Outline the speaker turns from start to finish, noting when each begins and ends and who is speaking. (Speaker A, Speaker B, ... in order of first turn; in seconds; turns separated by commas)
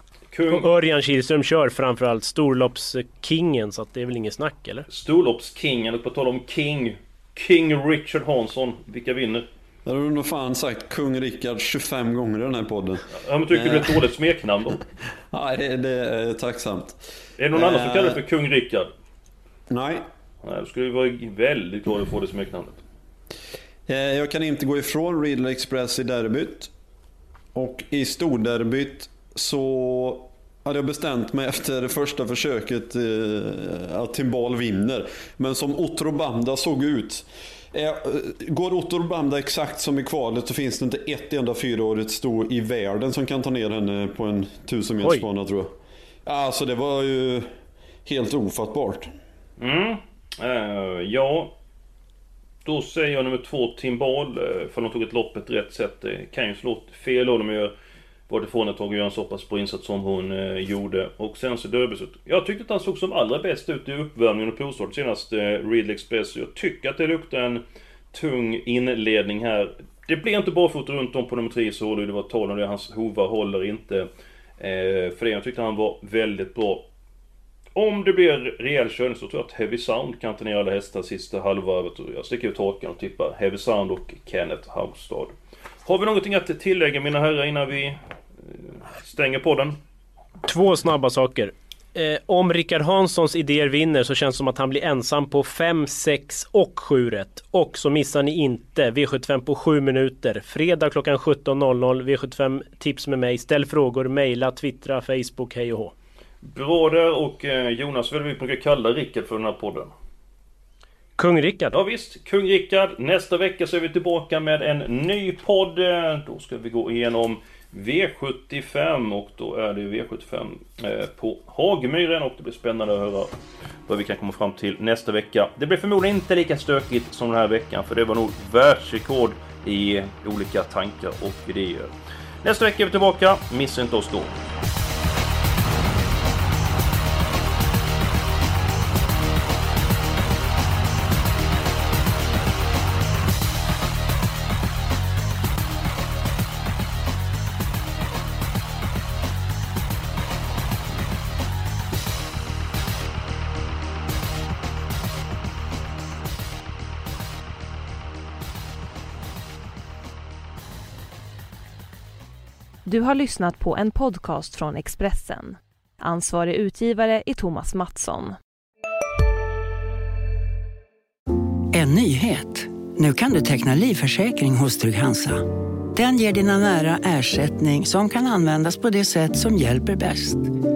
Speaker A: 0.3-0.7, Speaker B: 0.5-4.9, Speaker A: 4.9-9.5, Speaker C: 9.8-14.0, Speaker A: 13.1-14.8, Speaker C: 15.3-17.0, Speaker A: 17.4-18.9, Speaker C: 17.5-18.2, Speaker C: 19.7-20.1, Speaker A: 20.4-22.8, Speaker C: 23.9-26.7, Speaker C: 27.5-45.7, Speaker C: 46.3-47.5, Speaker C: 48.0-49.1, Speaker A: 49.6-51.5, Speaker A: 52.6-57.7, Speaker A: 58.3-74.1, Speaker A: 74.6-76.9, Speaker A: 77.8-89.8, Speaker B: 90.4-105.9, Speaker A: 106.4-109.9, Speaker B: 111.2-111.8, Speaker A: 111.7-123.3, Speaker A: 123.9-131.9, Speaker A: 132.4-134.4, Speaker D: 162.9-168.3, Speaker E: 171.7-180.5